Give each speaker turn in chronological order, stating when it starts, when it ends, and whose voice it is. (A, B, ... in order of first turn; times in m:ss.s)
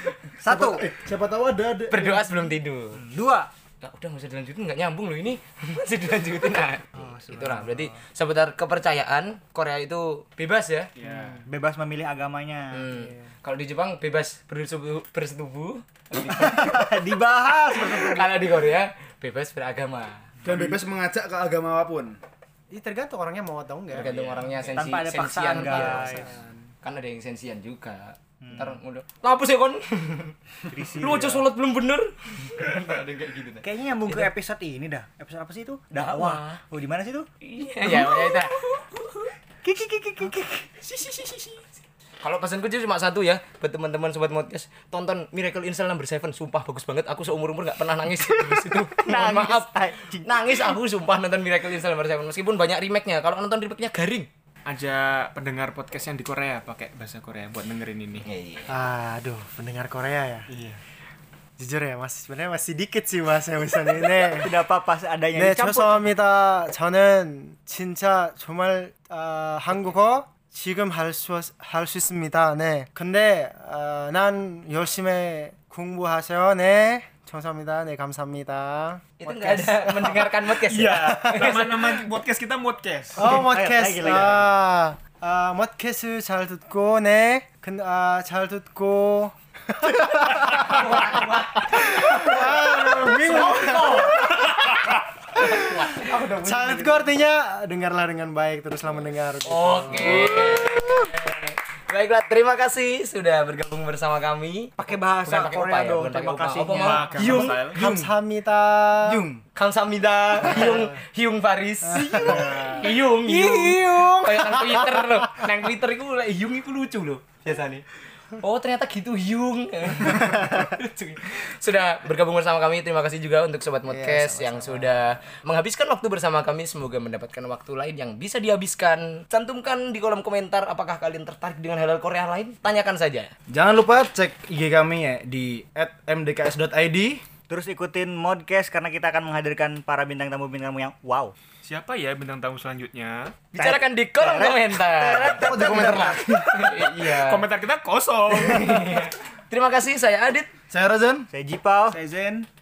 0:00.4-0:00.8 A
0:00.4-0:02.4 B
0:01.9-0:03.0 C
0:02.9-0:03.5 A
0:03.8-0:10.9 C
0:06.9-0:08.0 A
0:11.0-0:11.4 D
0:11.0-0:11.4 B
0:11.4-0:12.8 A
0:12.7-0:17.0 C
0:12.9-0:13.2 E
0:16.3-0:18.5 A
0:17.5-0:20.2 C
0:20.4-0:22.2 B
0:22.7-0:24.1 E
0:23.9-0:30.3 C
0:23.9-0:24.8 D
0:24.7-0:26.3 A
0:25.5-0:26.7 E
0:28.4-0:28.8 A
0:30.7-0:31.4 A
0:30.9-0:34.3 C
0:33.6-0:37.3 A
0:35.9-0:36.6 C
0:37.4-0:39.3 C
0:37.9-0:38.2 A
0:39.6-0:40.7 A
0:40.8-0:41.6 C
0:42.2-0:54.3 C
0:48.7-0:50.8 A
0:54.6-0:58.2 D
0:58.2-0:58.7 C
0:58.7-1:00.5 E
1:00.5-1:00.8 D
1:01.6-1:04.5 E
1:04.4-1:06.1 A
1:05.3-1:20.2 E
1:19.2-1:21.7 C
1:20.6-1:23.3 D
1:20.9-1:21.9 E
1:23.2-1:34.6 E
1:23.2-1:24.5 A
1:30.4-1:32.4 C
1:33.4-1:34.3 C
1:35.4-1:40.2 E
1:35.4-1:36.1 C
1:36.0-1:37.1 B
1:39.4-1:47.6 C
1:44.8-1:47.1 A
1:46.7-1:47.8 D
1:47.1-1:49.2 E
1:47.7-1:48.1 B
1:49.0-1:49.4 B
1:49.5-1:57.8 C
1:50.4-1:50.9 E
1:51.8-1:55.2 E
1:58.4-2:13.3 C
2:03.9-2:04.9 A
2:13.5-2:17.2 B
2:17.5-2:21.3 A
2:21.6-2:23.4 D
2:23.5-2:26.2 A
2:23.5-2:27.5 C
2:25.3-2:26.7 B
2:27.0-2:29.0 D
2:28.3-2:30.5 C
2:30.7-2:31.3 B
2:31.3-2:32.0 A
2:31.9-2:32.5 D